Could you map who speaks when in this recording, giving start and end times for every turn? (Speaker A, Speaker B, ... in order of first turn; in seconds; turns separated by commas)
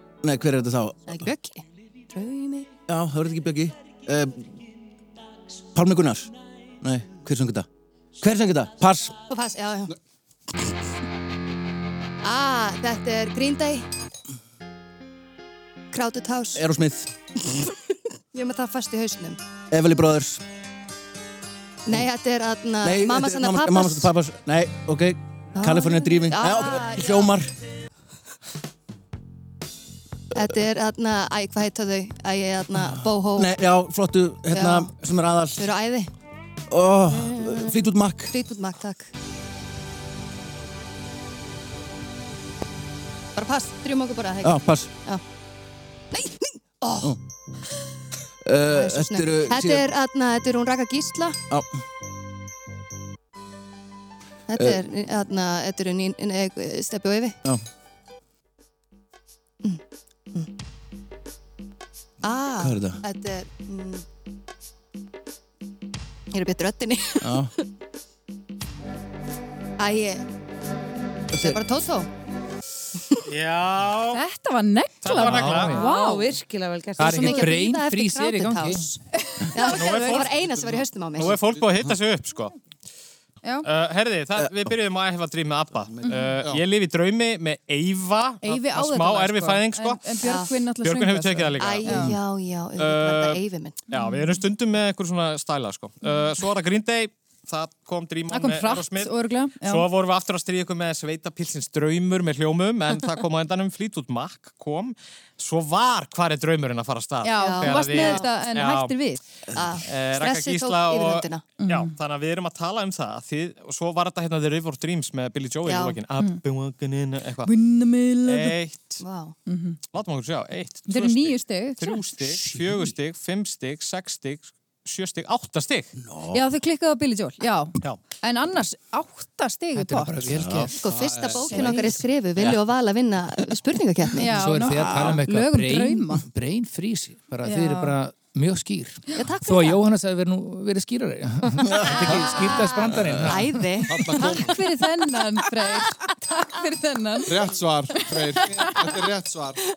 Speaker A: 0.2-1.3, Speaker B: 1.1-2.7, Speaker A: 2.9-4.6, Speaker A: 5.7-7.7, Speaker A: 8.2-9.1, Speaker B: 9.3-9.9, Speaker B: 12.2-13.8, Speaker B: 15.9-16.6, Speaker A: 16.5-17.1, Speaker B: 18.3-19.4, Speaker A: 19.7-20.4, Speaker B: 21.9-24.1, Speaker A: 22.8-27.5, Speaker B: 25.6-27.3, Speaker B: 30.3-33.5, Speaker A: 32.8-35.7, Speaker B: 34.5-34.9, Speaker B: 35.5-36.1, Speaker A: 36.7-38.4, Speaker B: 37.1-39.1, Speaker B: 43.4-45.2, Speaker A: 44.4-44.9, Speaker B: 46.1-47.1, Speaker A: 48.4-49.9, Speaker B: 48.7-51.4, Speaker B: 54.5-57.4, Speaker A: 54.5-54.8, Speaker B: 62.2-64.0, Speaker A: 62.6-63.0, Speaker B: 66.3-67.5, Speaker A: 67.2-67.5, Speaker B: 69.8-70.2, Speaker A: 71.3-71.6, Speaker B: 71.3-72.1, Speaker C: 73.2-74.2, Speaker D: 74.1-76.3, Speaker C: 75.0-75.8, Speaker E: 75.1-75.8, Speaker F: 75.6-77.6, Speaker E: 77.0-78.8, Speaker B: 77.0-79.0, Speaker D: 79.1-80.3, Speaker B: 79.5-81.4, Speaker C: 79.6-80.4, Speaker G: 80.3-81.8, Speaker C: 81.2-82.5, Speaker C: 83.6-90.0, Speaker A: 84.4-84.7, Speaker A: 85.7-86.1, Speaker D: 86.0-86.4, Speaker D: 88.4-92.1, Speaker B: 90.2-90.6, Speaker C: 90.8-92.2, Speaker B: 91.6-93.8, Speaker C: 92.8-108.9, Speaker D: 93.9-94.4, Speaker D: 98.3-99.8, Speaker D: 107.2-109.2, Speaker B: 107.3-108.2, Speaker A: 109.5-109.8, Speaker B: 109.5-111.5, Speaker C: 109.8-117.5, Speaker D: 111.6-111.9, Speaker B: 115.7-116.0, Speaker D: 117.4-118.5, Speaker C: 118.2-119.0, Speaker B: 119.0-119.3, Speaker D: 119.5-119.8, Speaker C: 119.9-125.9, Speaker D: 120.9-122.0, Speaker E: 122.2-122.9, Speaker A: 126.0-126.4, Speaker D: 126.3-130.7, Speaker E: 129.7-130.7, Speaker A: 130.3-130.7, Speaker B: 130.8-134.3, Speaker G: 130.9-131.6, Speaker D: 131.3-131.9, Speaker D: 134.2-136.2, Speaker E: 134.3-143.6, Speaker A: 134.8-135.2, Speaker D: 137.4-137.9, Speaker B: 139.1-139.8, Speaker A: 141.6-142.3, Speaker B: 141.8-144.5, Speaker A: 142.9-143.3, Speaker G: 143.9-144.6, Speaker D: 144.2-148.9, Speaker G: 147.3-149.6